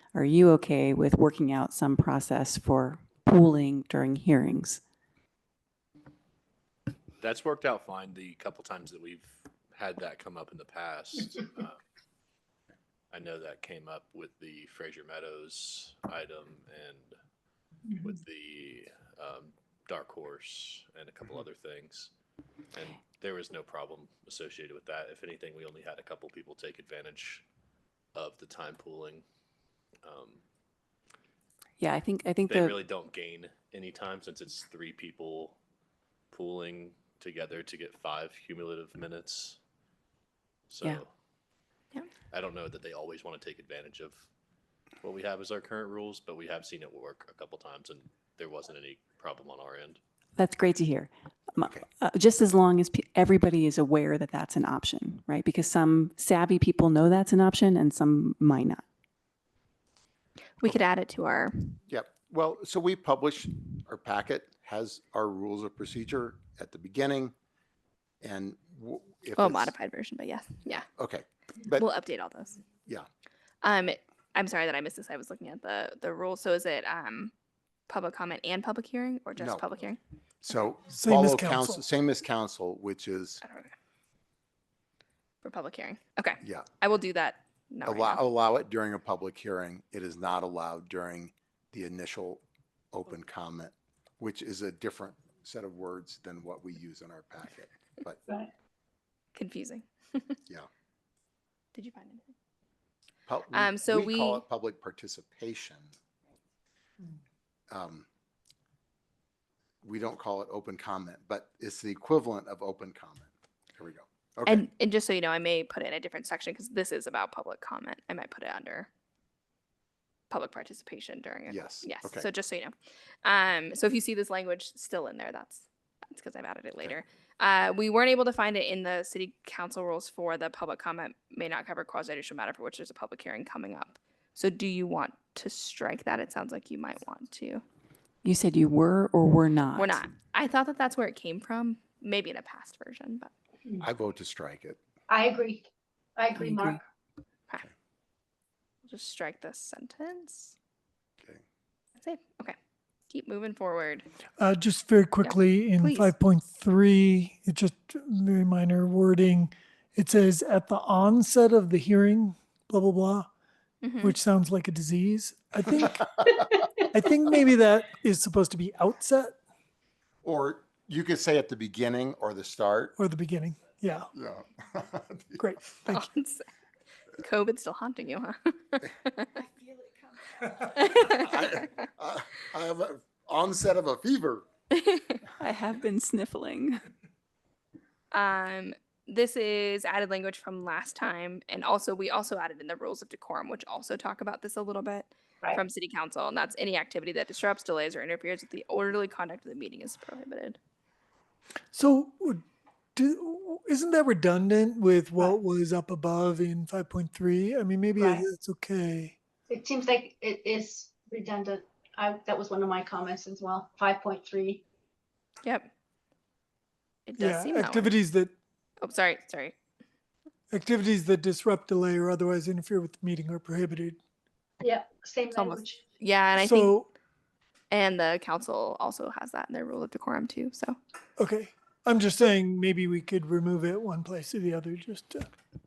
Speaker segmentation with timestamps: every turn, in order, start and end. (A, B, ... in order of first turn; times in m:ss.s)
0:00.1-0:04.8 A
0:07.2-0:11.8 B
0:13.1-0:17.2 B
0:18.0-0:22.1 B
0:22.7-0:27.4 B
0:28.1-0:29.2 B
0:30.0-0:30.4 B
0:31.8-0:32.8 A
0:32.5-0:35.6 B
0:36.3-0:39.6 B
0:40.7-0:41.1 B
0:42.3-0:44.3 B
0:45.0-0:50.0 B
0:50.4-0:58.8 A
1:00.6-1:01.8 C
1:01.9-1:07.3 D
1:08.2-1:09.7 D
1:09.4-1:10.9 C
1:11.0-1:11.8 D
1:11.7-1:12.6 C
1:13.6-1:17.3 C
1:17.9-1:20.0 C
1:19.4-1:19.6 D
1:20.4-1:23.4 D
1:20.9-1:21.8 E
1:23.4-1:23.7 C
1:25.4-1:28.2 C
1:26.4-1:26.7 D
1:27.8-1:38.2 D
1:39.3-1:40.4 C
1:41.7-1:42.3 C
1:43.3-1:45.9 D
1:43.5-1:44.4 C
1:47.7-1:48.0 D
1:49.8-1:54.7 D
1:54.4-1:58.9 C
2:00.3-2:17.6 C
2:01.4-2:02.2 D
2:18.2-2:20.0 A
2:19.7-2:23.3 C
2:23.8-2:24.8 D
2:25.1-2:26.8 F
2:26.4-2:26.8 A
2:28.8-2:30.5 C
2:32.0-2:32.6 C
2:33.1-2:34.1 C
2:34.4-2:43.3 E
2:35.2-2:36.1 C
2:43.8-2:44.1 C
2:44.0-2:46.1 E
2:46.9-2:49.4 E
2:50.2-2:52.9 D
2:53.0-2:54.1 E
2:54.1-2:55.4 D
2:55.4-2:56.1 E
2:55.9-2:56.4 C
2:57.2-2:59.4 C
3:00.6-3:01.7 C
3:01.0-3:04.5 D
3:04.7-3:05.2 C
3:05.4-3:06.8 A
3:08.1-3:20.6 C
3:21.7-3:22.4 E
3:23.0-3:29.2 E
3:28.0-3:28.3 F
3:29.5-3:34.6 F
3:35.4-3:35.7 C
3:37.0-3:38.0 C
3:37.2-3:38.3 E
3:38.8-3:39.5 C
3:40.5-3:44.0 E
3:44.6-3:45.8 F
3:45.3-3:46.7 C
3:46.4-3:46.9 E
3:47.7-3:50.8 C
3:51.2-3:55.3 E